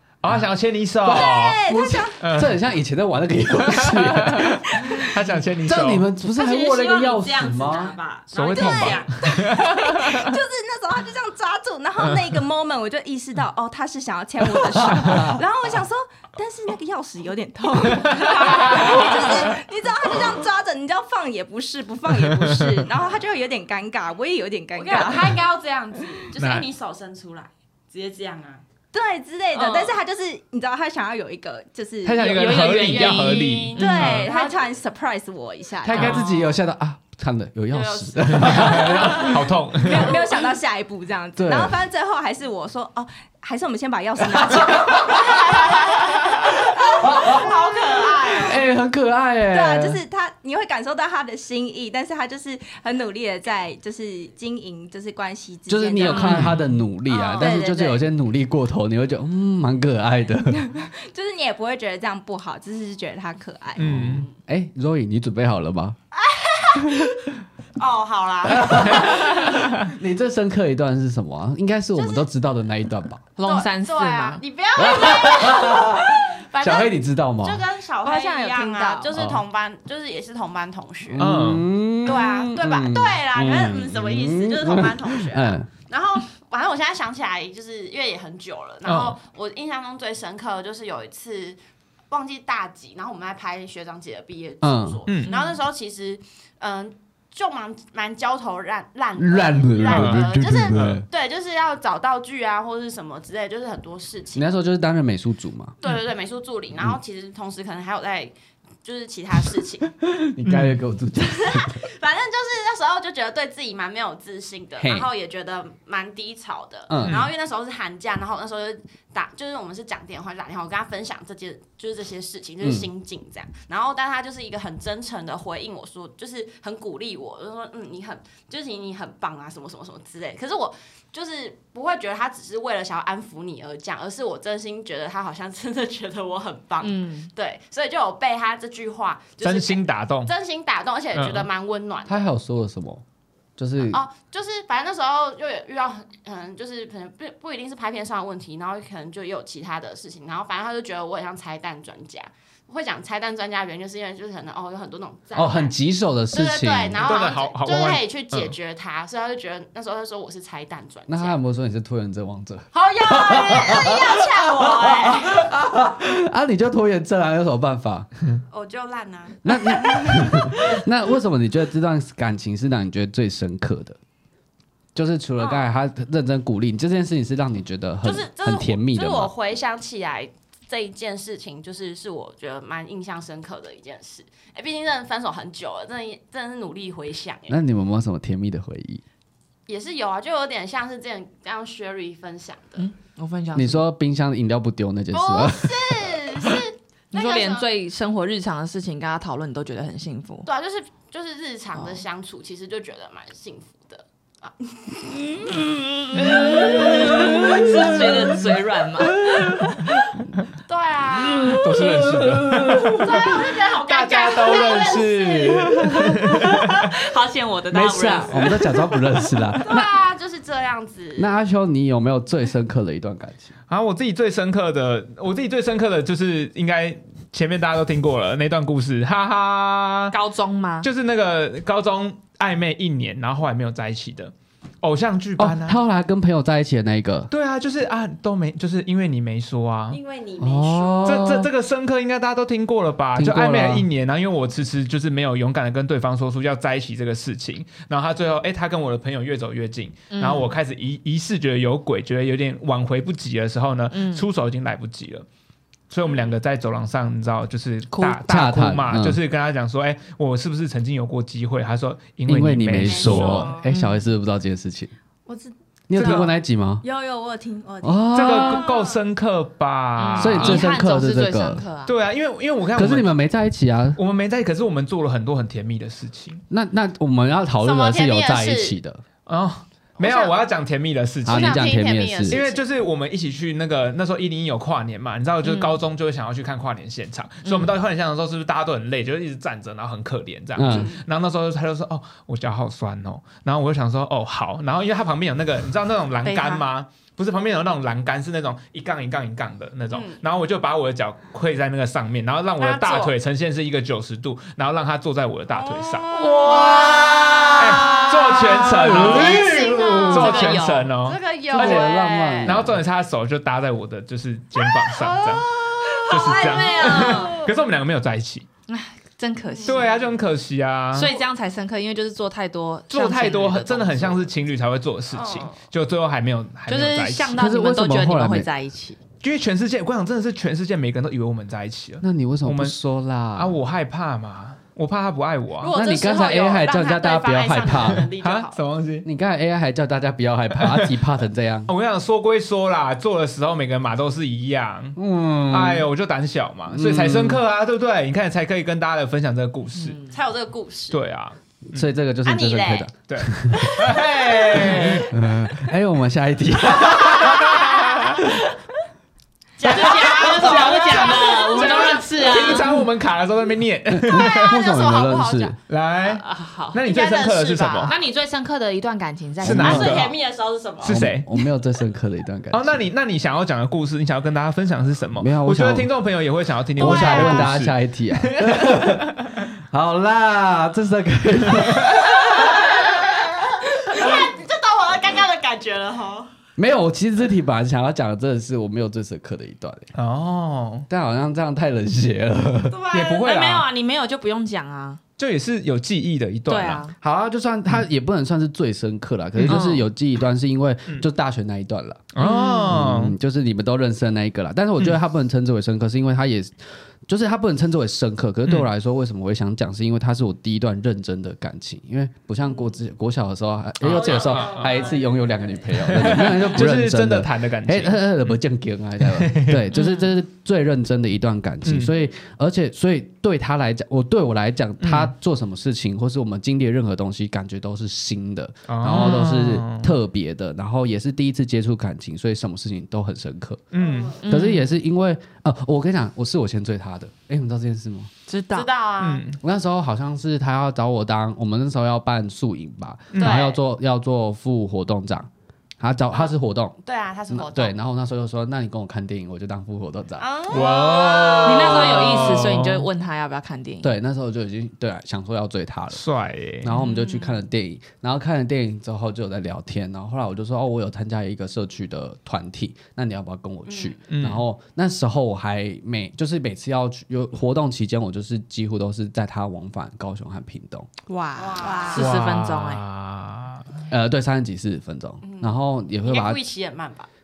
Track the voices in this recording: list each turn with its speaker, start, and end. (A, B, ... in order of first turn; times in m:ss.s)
0:00.2-0:01.6 A
0:01.0-0:02.2 B
0:01.0-0:04.9 C
0:02.2-0:02.5 A
0:03.7-0:06.1 A
0:04.8-0:05.2 B
0:05.6-0:08.0 C
0:06.3-0:09.3 D
0:08.3-0:10.4 A
0:08.5-0:25.4 B
0:14.4-0:15.4 C
0:18.1-0:19.1 A
0:18.3-0:19.3 D
0:22.1-0:22.8 A
0:22.9-0:23.2 D
0:24.7-0:28.6 D
0:26.4-0:26.7 A
0:28.9-0:32.9 B
0:29.5-0:30.0 D
0:32.0-0:34.3 A
0:32.2-0:34.3 E
0:32.3-0:34.7 D
0:33.8-0:36.2 B
0:35.8-0:39.5 C
0:35.9-0:36.5 D
0:37.7-0:39.4 D
0:38.4-0:40.2 A
0:38.9-0:48.6 B
0:39.9-0:40.6 D
0:41.4-0:41.8 C
0:44.3-0:45.2 C
0:45.1-0:48.6 D
0:47.0-0:47.5 C
0:48.4-0:50.0 C
0:49.5-0:56.6 B
0:55.7-1:00.7 C
0:56.0-0:56.5 E
0:56.2-0:56.6 A
0:57.1-0:57.7 D
0:57.3-0:58.0 B
1:00.5-1:04.1 B
1:03.8-1:04.3 A
1:03.8-1:06.0 C
1:06.3-1:07.1 D
1:07.8-1:09.5 D
1:08.4-1:13.2 C
1:08.9-1:09.6 A
1:12.0-1:12.3 D
1:13.4-1:14.4 E
1:13.4-1:21.3 D
1:14.8-1:17.6 C
1:18.0-1:19.1 B
1:19.2-1:19.4 C
1:21.1-1:25.7 C
1:21.2-1:21.7 A
1:22.0-1:31.6 D
1:28.8-1:29.2 A
1:32.1-1:44.5 D
1:34.6-1:35.0 C
1:35.1-1:35.3 A
1:35.2-1:35.6 E
1:39.2-1:41.0 C
1:39.9-1:41.0 A
1:44.3-1:45.7 C
1:45.8-1:50.0 D
1:50.1-1:51.8 C
1:50.4-1:50.8 A
1:51.2-2:22.3 D
1:54.8-1:55.1 C
1:56.9-1:57.3 C
2:02.6-2:02.9 C
2:16.8-2:17.3 E
2:19.4-2:20.3 A
2:21.1-2:21.5 A
2:22.0-2:23.0 C
2:23.6-2:24.0 C
2:23.9-2:35.7 D
2:35.3-2:37.0 C
2:36.3-2:41.4 D
2:37.0-2:38.6 A
2:41.1-2:48.1 C
2:42.7-2:45.5 D
2:48.5-2:50.8 D
2:49.4-2:54.0 C
2:54.9-2:59.3 C
2:55.4-2:55.7 D
2:58.0-3:07.6 D
3:07.5-3:09.0 C
3:09.7-3:12.8 D
3:12.8-3:13.8 E
3:13.5-3:16.2 C
3:15.1-3:17.7 D
3:17.1-3:20.5 E
3:20.4-3:25.5 D
3:25.5-3:29.2 E
3:26.2-3:26.8 A
3:26.2-3:28.1 D
3:26.5-3:28.3 C
3:29.0-3:30.0 C
3:30.6-3:31.8 D
3:31.2-3:33.4 C
3:31.6-3:36.9 A
3:32.8-3:35.9 D
3:35.8-3:36.3 C
3:36.2-3:38.9 E
3:37.7-3:40.0 C
3:39.6-3:41.3 D
3:41.2-3:43.5 C
3:43.7-3:50.2 A
3:50.1-3:50.9 E
3:50.8-3:55.8 A
3:55.4-3:57.3 C
3:57.3-4:00.0 A
3:59.9-4:01.3 D
4:00.4-4:01.5 C
4:01.0-4:15.3 A
4:03.2-4:03.9 C
4:10.1-4:10.5 E
4:13.9-4:14.2 E
4:15.9-4:23.5 A
4:16.0-4:16.4 D
4:18.1-4:19.2 C
4:22.3-4:24.9 C
4:22.8-4:23.6 D
4:23.6-4:24.0 E
4:25.2-4:28.7 B
4:25.9-4:26.8 C
4:27.8-4:28.7 C
4:28.1-4:30.6 A
4:28.5-4:29.0 D
4:30.0-4:31.9 E
4:30.2-4:31.7 C
4:31.8-4:33.1 A
4:32.7-4:34.0 C
4:34.0-4:36.4 A
4:36.5-4:39.0 C
4:37.6-4:38.8 D
4:39.2-4:41.7 A
4:40.0-4:40.4 D
4:41.2-4:42.4 C
4:41.3-4:42.6 D
4:42.3-5:06.1 A
4:45.4-4:45.8 E
4:47.4-4:47.7 E
4:50.5-4:50.9 C
4:50.6-4:51.0 D
4:56.2-4:56.7 E
4:59.9-5:00.2 D
5:02.6-5:03.1 D
5:05.6-5:07.2 D
5:06.1-5:10.3 C
5:07.6-5:09.5 A
5:08.9-5:10.9 E
5:08.9-5:12.6 D
5:10.0-5:11.9 A
5:11.5-5:12.8 C
5:12.4-5:18.5 A
5:14.7-5:17.4 D
5:15.9-5:17.5 E
5:18.7-5:19.9 E
5:19.5-5:20.2 D
5:19.6-5:21.1 A
5:20.9-5:24.3 E
5:22.9-5:27.4 A
5:25.1-5:25.6 D
5:26.7-5:29.0 E
5:27.3-5:28.5 C
5:29.2-5:32.8 A
5:32.0-5:33.6 C
5:33.4-5:35.7 A
5:35.6-5:38.6 D
5:35.7-5:38.1 C
5:38.1-5:39.1 A
5:39.0-5:41.7 C
5:40.5-5:41.0 A
5:41.7-5:45.0 A
5:45.0-5:45.9 C
5:45.5-5:50.0 A
5:46.7-5:47.4 C
5:49.8-5:50.1 E
5:50.1-5:51.0 D
5:50.9-5:51.9 A
5:51.7-5:54.0 C
5:52.2-5:52.9 D
5:53.1-5:55.1 A
5:53.7-5:55.1 D
5:54.5-5:57.6 C
5:54.6-5:55.0 E
5:56.9-5:58.3 D
5:57.2-5:58.2 A
5:59.6-6:02.7 D
5:59.6-6:02.8 E
5:59.7-6:04.6 A
6:03.9-6:05.5 C
6:04.1-6:05.5 D
6:05.7-6:07.9 A
6:06.0-6:06.8 E
6:06.8-6:08.0 D
6:07.8-6:10.0 E
6:09.4-6:10.0 C
6:09.4-6:10.1 A
6:09.4-6:11.1 D
6:10.8-6:11.2 A
6:10.8-6:12.9 C
6:12.5-6:19.3 A
6:15.2-6:15.9 C
6:16.8-6:22.7 C
6:16.8-6:17.5 D
6:22.1-6:26.3 D
6:26.6-6:29.9 C
6:29.9-6:30.9 A
6:30.9-6:32.8 C
6:32.7-6:33.3 D
6:32.9-6:33.7 A
6:33.2-6:35.0 E
6:35.2-6:36.8 A
6:36.5-6:36.9 E
6:37.0-7:13.7 C
6:39.4-6:39.6 A
6:39.5-6:39.8 E
6:42.1-6:43.2 A
6:42.2-6:42.7 E
6:53.8-6:54.8 A
6:53.9-6:55.9 D
6:55.7-6:58.4 A
6:59.0-6:59.7 A
6:59.7-7:00.1 E
7:01.6-7:01.9 A
7:04.8-7:05.1 A
7:08.7-7:10.0 A
7:13.7-7:14.2 A
7:13.8-7:14.2 D
7:14.2-7:14.8 E
7:14.3-7:18.1 C
7:18.3-7:18.7 E
7:18.5-7:19.2 D
7:19.0-7:19.4 A
7:19.4-7:25.3 C
7:23.1-7:23.5 A
7:23.2-7:23.6 D
7:25.8-7:26.8 C
7:26.1-7:27.7 D
7:27.3-7:30.6 C
7:30.2-7:32.1 D
7:30.5-7:32.9 A
7:31.4-7:33.9 E
7:33.8-7:36.0 C
7:35.9-7:36.7 A
7:36.6-7:50.9 C
7:36.7-7:37.4 D
7:43.6-7:44.0 D
7:44.1-7:44.4 A
7:51.1-7:52.8 E
7:51.4-7:52.0 D
7:51.7-7:51.9 B
7:51.9-7:53.7 A
7:53.9-7:56.4 C
7:55.2-7:57.1 D